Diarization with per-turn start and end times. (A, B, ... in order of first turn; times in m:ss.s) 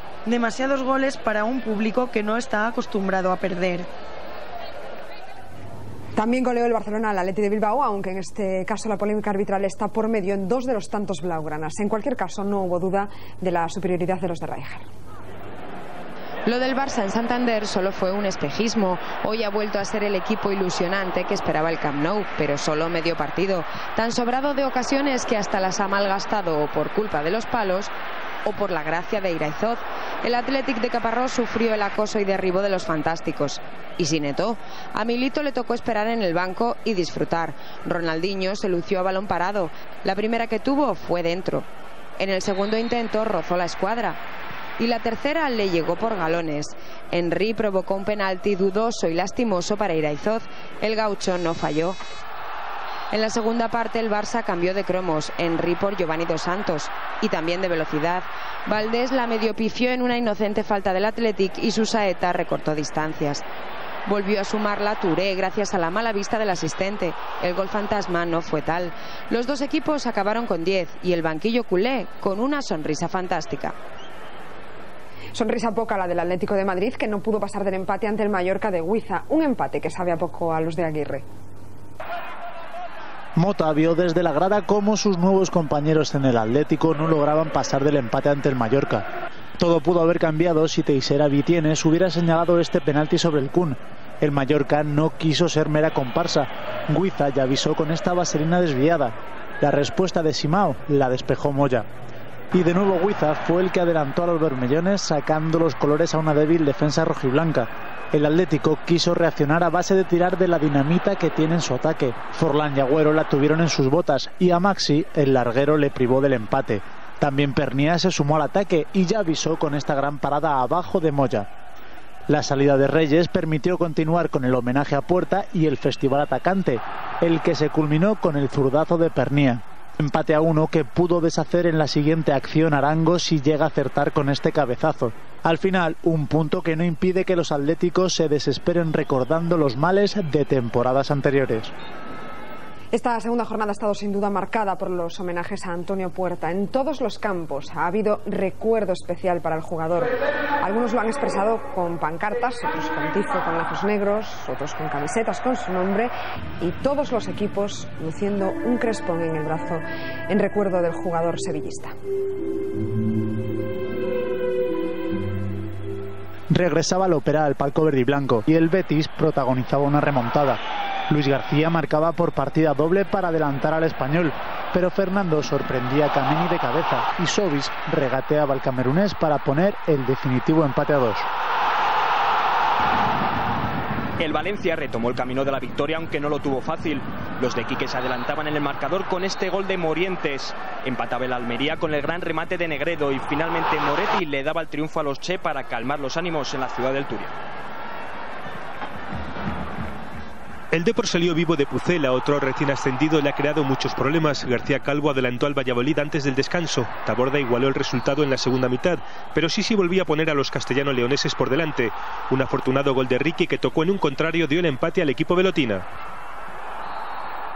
0:00.3-0:03.9 A
0:06.2-0:14.9 B
0:16.4-0:27.9 C
0:28.4-0:41.7 C
0:42.2-0:44.2 C
0:44.8-0:52.0 C
0:53.1-1:03.4 C
1:04.0-1:13.7 C
1:15.3-1:21.2 B
1:23.4-1:29.0 D
1:29.6-1:41.9 D
1:42.5-2:01.5 D
2:02.3-2:21.7 D
2:22.9-2:41.9 B
2:46.5-3:01.3 D
3:04.2-3:17.3 E
3:20.7-3:35.8 F